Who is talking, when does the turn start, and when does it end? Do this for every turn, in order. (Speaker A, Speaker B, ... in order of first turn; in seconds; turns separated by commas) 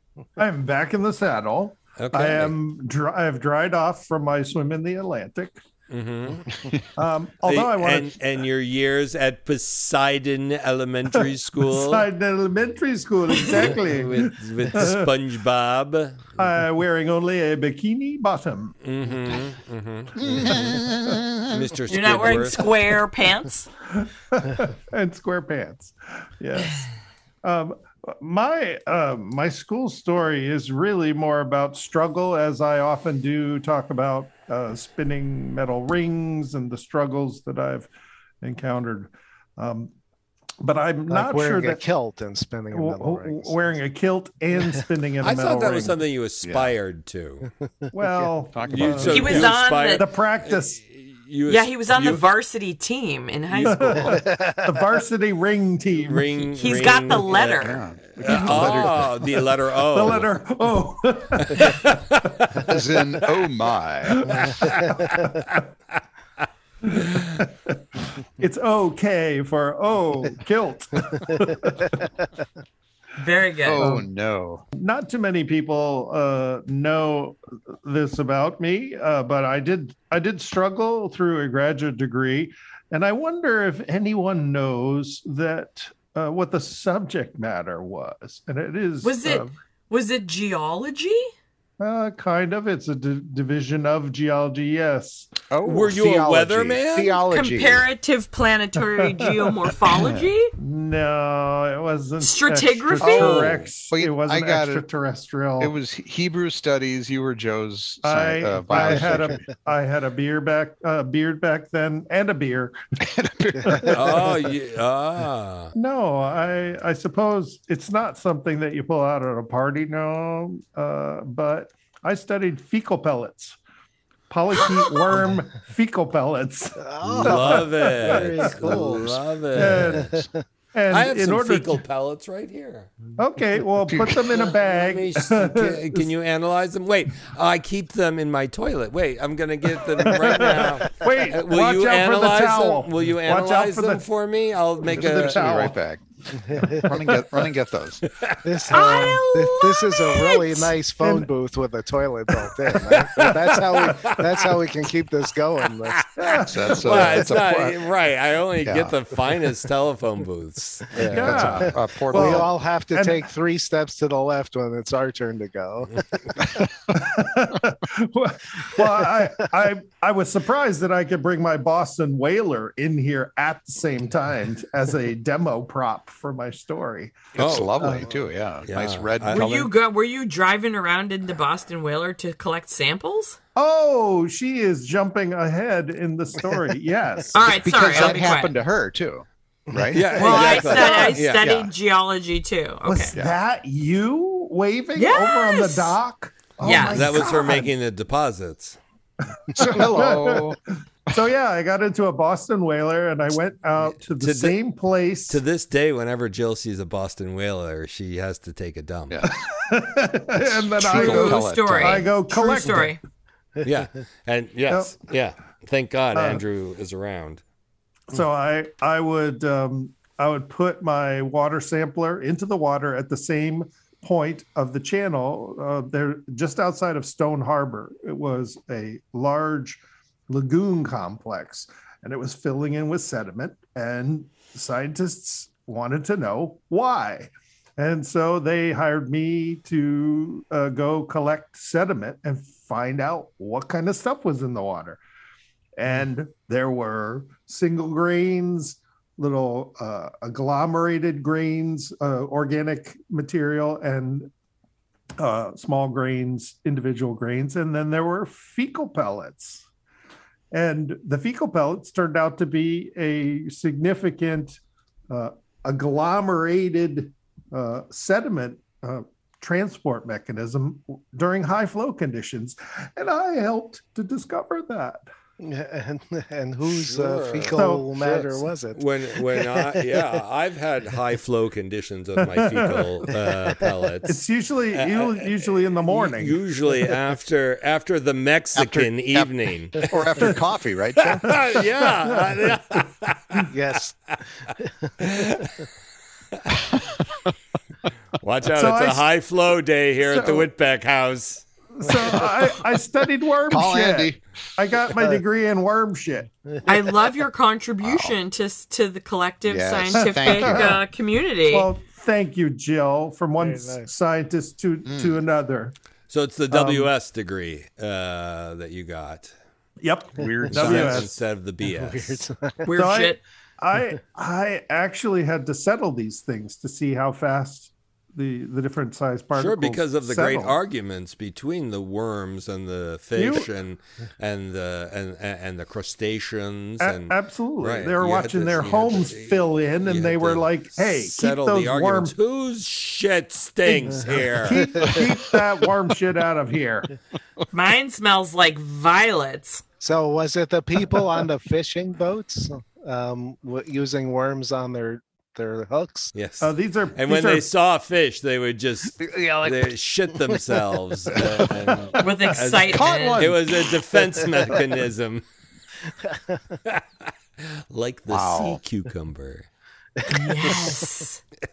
Speaker A: 0.4-5.6, Speaker B: 2.0-2.5, Speaker B: 5.9-6.5, Speaker A: 7.0-8.1, Speaker B: 7.5-12.0, Speaker A: 11.6-15.1, Speaker B: 13.4-16.4, Speaker A: 16.4-18.8, Speaker B: 18.8-20.9, Speaker C: 20.2-21.6, Speaker B: 21.5-22.6, Speaker D: 21.9-23.7, Speaker A: 23.9-26.9, Speaker A: 27.4-37.9, Speaker A: 38.4-39.9, Speaker A: 40.6-41.8, Speaker E: 41.1-43.5, Speaker A: 42.7-46.0, Speaker B: 45.2-47.5, Speaker C: 46.4-46.7, Speaker A: 47.9-50.8, Speaker C: 48.5-49.5, Speaker B: 48.6-52.2, Speaker D: 49.1-50.0, Speaker D: 51.5-54.2, Speaker B: 53.5-54.1, Speaker A: 53.6-56.8, Speaker E: 54.0-54.8, Speaker B: 56.0-60.4, Speaker D: 56.6-57.8, Speaker C: 57.3-59.1, Speaker A: 58.2-62.0, Speaker B: 61.4-62.8, Speaker C: 62.6-64.5, Speaker A: 64.1-65.6, Speaker B: 64.3-65.6, Speaker A: 66.9-72.0, Speaker B: 67.0-67.3, Speaker D: 73.2-73.9, Speaker C: 73.6-74.6, Speaker A: 73.8-74.0, Speaker A: 74.8-89.5, Speaker D: 89.0-91.3, Speaker A: 91.8-95.3, Speaker C: 95.5-97.8, Speaker B: 95.6-97.2, Speaker D: 97.2-100.5, Speaker A: 99.1-99.4, Speaker C: 99.9-100.3, Speaker A: 100.6-105.7, Speaker D: 102.2-103.5, Speaker C: 103.0-104.8, Speaker C: 105.6-109.5, Speaker A: 108.0-112.8, Speaker E: 108.7-109.2, Speaker C: 113.0-114.3, Speaker A: 113.6-114.0, Speaker B: 113.9-115.7, Speaker A: 115.7-123.6, Speaker A: 124.3-128.5, Speaker E: 126.8-129.2, Speaker B: 127.0-130.2, Speaker C: 128.6-130.3, Speaker A: 129.5-130.1, Speaker E: 129.7-130.4, Speaker A: 130.7-131.8, Speaker B: 130.9-132.9, Speaker A: 133.2-136.1, Speaker C: 133.9-134.4, Speaker B: 134.3-145.5, Speaker A: 140.0-144.0, Speaker A: 144.9-145.8, Speaker C: 144.9-146.0, Speaker E: 146.4-146.9, Speaker C: 146.5-148.0, Speaker B: 148.0-149.1, Speaker E: 148.4-156.1, Speaker D: 148.7-150.7, Speaker A: 151.0-151.3, Speaker B: 152.7-154.6, Speaker B: 155.6-161.7, Speaker A: 156.2-157.4, Speaker C: 156.4-157.8, Speaker C: 158.6-158.9, Speaker C: 160.9-162.5, Speaker A: 161.0-163.2, Speaker E: 161.6-166.6, Speaker A: 166.9-177.3, Speaker B: 177.3-178.0, Speaker C: 177.3-179.7, Speaker E: 177.8-178.1, Speaker B: 178.7-179.5, Speaker D: 179.3-183.4, Speaker A: 183.6-187.4, Speaker D: 187.3-188.5, Speaker C: 187.5-190.4, Speaker E: 189.7-190.3, Speaker B: 189.9-191.6, Speaker D: 190.2-193.1, Speaker A: 190.2-191.1, Speaker C: 191.4-191.7, Speaker A: 192.8-197.7, Speaker D: 194.9-196.0, Speaker D: 196.6-197.1, Speaker B: 196.6-198.8, Speaker A: 199.3-200.6, Speaker C: 199.5-200.6, Speaker A: 201.1-205.4, Speaker B: 204.0-204.6, Speaker B: 205.3-209.3, Speaker C: 209.1-209.5, Speaker A: 209.2-212.9, Speaker C: 210.3-212.1, Speaker D: 210.8-213.0, Speaker B: 213.6-217.4, Speaker A: 214.7-214.9, Speaker A: 216.1-216.4, Speaker A: 218.1-245.0, Speaker A: 245.8-254.3, Speaker A: 255.2-259.6, Speaker A: 260.5-264.6, Speaker A: 265.1-275.0, Speaker E: 275.4-280.0, Speaker B: 276.6-284.2, Speaker A: 277.5-277.9, Speaker A: 282.3-283.0, Speaker A: 284.1-286.4, Speaker B: 284.7-290.4, Speaker C: 288.5-291.4, Speaker B: 291.0-293.5, Speaker A: 291.8-292.4, Speaker E: 293.5-295.1, Speaker B: 295.0-295.6, Speaker B: 296.3-296.8, Speaker B: 298.2-301.5, Speaker A: 298.5-299.0, Speaker A: 300.1-300.4, Speaker A: 301.7-306.3, Speaker C: 303.5-304.2, Speaker D: 306.6-311.7, Speaker C: 307.8-308.1, Speaker C: 309.4-310.8, Speaker A: 309.9-310.8, Speaker A: 311.5-315.7, Speaker E: 313.4-313.9, Speaker C: 314.8-315.2, Speaker B: 316.1-319.3, Speaker A: 316.5-316.9, Speaker A: 319.8-321.1, Speaker C: 320.2-321.1, Speaker B: 320.5-322.2, Speaker E: 321.6-322.7, Speaker D: 322.6-323.2, Speaker A: 322.7-330.6, Speaker B: 329.3-344.9, Speaker A: 333.1-333.5, Speaker A: 336.8-342.2, Speaker A: 344.3-346.9, Speaker E: 344.7-345.0, Speaker D: 347.5-349.6, Speaker E: 349.8-356.1, Speaker B: 356.1-365.2, Speaker A: 356.4-357.5, Speaker E: 359.0-359.7, Speaker D: 362.0-363.3, Speaker C: 362.7-363.5, Speaker E: 366.0-366.4, Speaker B: 366.6-369.5, Speaker C: 368.1-368.6, Speaker E: 370.0-370.8, Speaker D: 370.0-371.2